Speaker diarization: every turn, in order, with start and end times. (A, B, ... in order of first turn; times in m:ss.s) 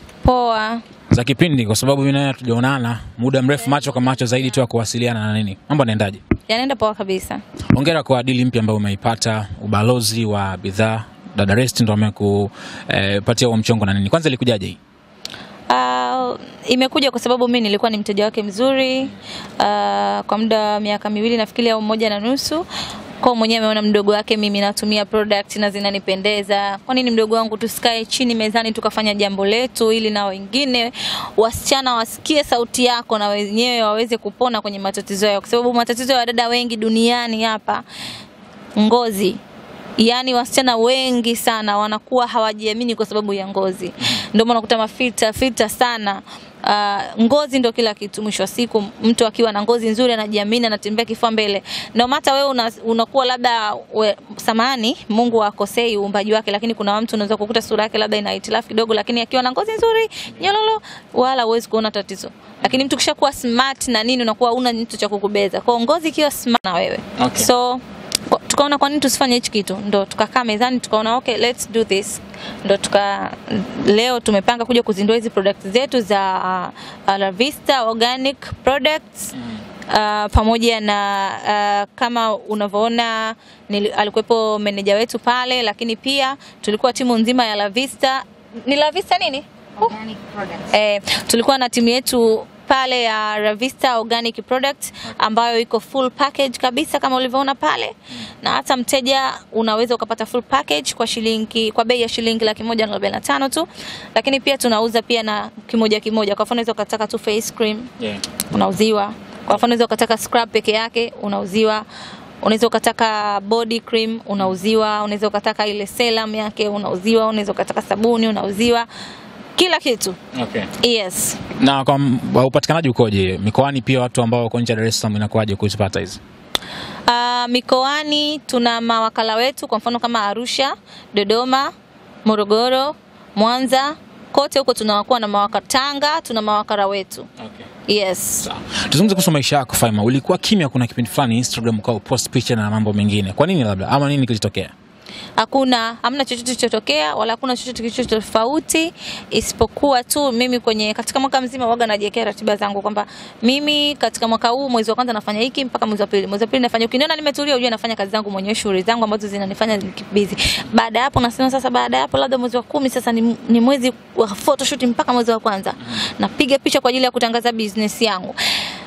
0:00.2-0:00.8 A
0:01.1-0:06.2 B
0:06.5-0:07.4 A
0:07.7-0:14.8 B
0:15.7-0:22.6 A
0:23.2-0:37.8 A
0:38.8-0:39.4 A
0:40.0-1:19.3 A
1:07.2-1:07.5 B
1:19.9-1:47.9 A
1:48.5-1:51.8 A
1:52.4-1:58.9 A
1:59.6-2:00.2 A
2:00.3-2:00.7 B
2:00.8-2:01.4 A
2:01.5-2:06.2 B
2:07.1-2:11.7 A
2:12.2-2:17.3 A
2:17.4-2:17.6 B
2:17.9-2:18.4 A
2:18.4-2:24.7 B
2:25.4-2:48.6 A